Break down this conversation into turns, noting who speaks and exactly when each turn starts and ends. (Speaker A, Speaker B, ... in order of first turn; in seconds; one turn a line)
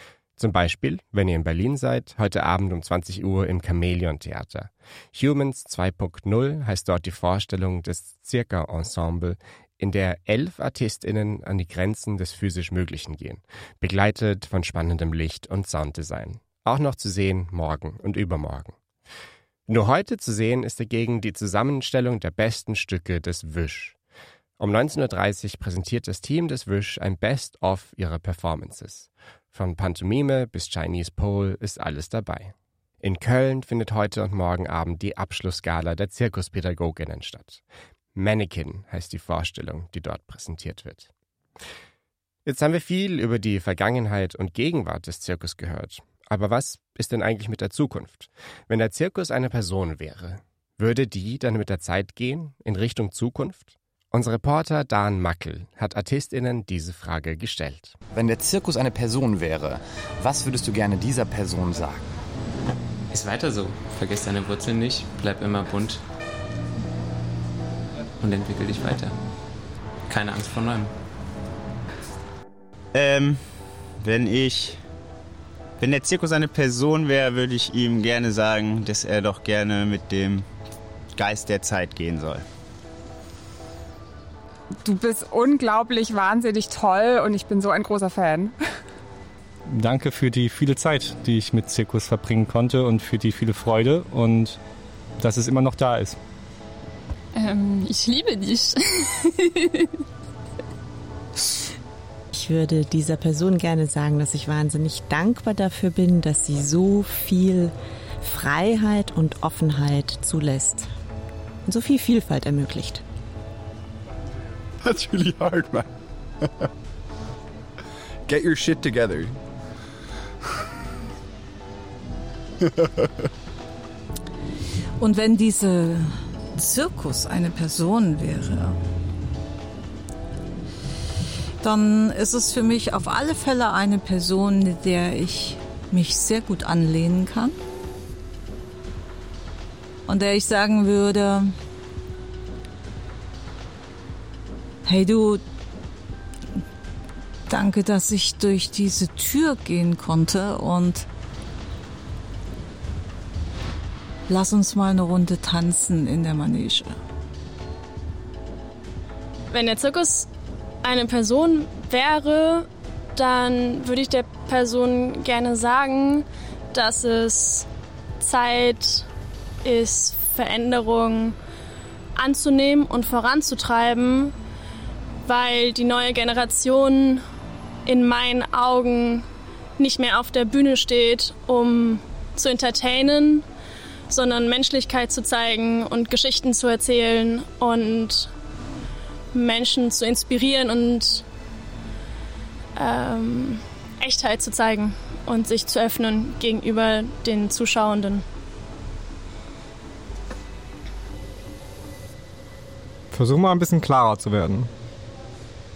Speaker A: 0.4-18.8
Speaker A: 19.7-24.0
Speaker A: 24.6-37.6
Speaker A: 38.1-41.1
Speaker A: 42.4-58.0
Speaker B: 58.2-59.7
Speaker B: 60.2-62.0
Speaker C: 63.1-66.0
Speaker C: 68.2-69.2
Speaker C: 70.1-70.9
Speaker D: 72.9-74.8
Speaker D: 75.8-80.5
Speaker D: 81.1-82.4
Speaker E: 84.8-88.5
Speaker F: 89.7-94.6
Speaker F: 95.2-96.2
Speaker G: 97.3-99.9
Speaker H: 102.3-110.9
Speaker H: 111.6-113.0
Speaker I: 114.8-115.9
Speaker I: 116.4-116.7
Speaker I: 118.3-119.3
Speaker I: 122.6-123.3
Speaker J: 125.0-128.8
Speaker J: 131.6-137.5
Speaker J: 140.1-141.5
Speaker J: 144.8-145.4
Speaker J: 147.5-151.1
Speaker J: 154.3-157.0
Speaker G: 159.5-160.3
Speaker G: 160.8-167.7
Speaker G: 168.2-169.1
Speaker G: 169.6-171.3
Speaker G: 172.1-174.3
Speaker G: 175.2-177.2
Speaker G: 177.8-179.2
Speaker G: 179.8-183.4
Speaker G: 184.1-188.3
Speaker G: 189.3-191.2
Speaker G: 192.7-198.2
Speaker F: 203.1-204.7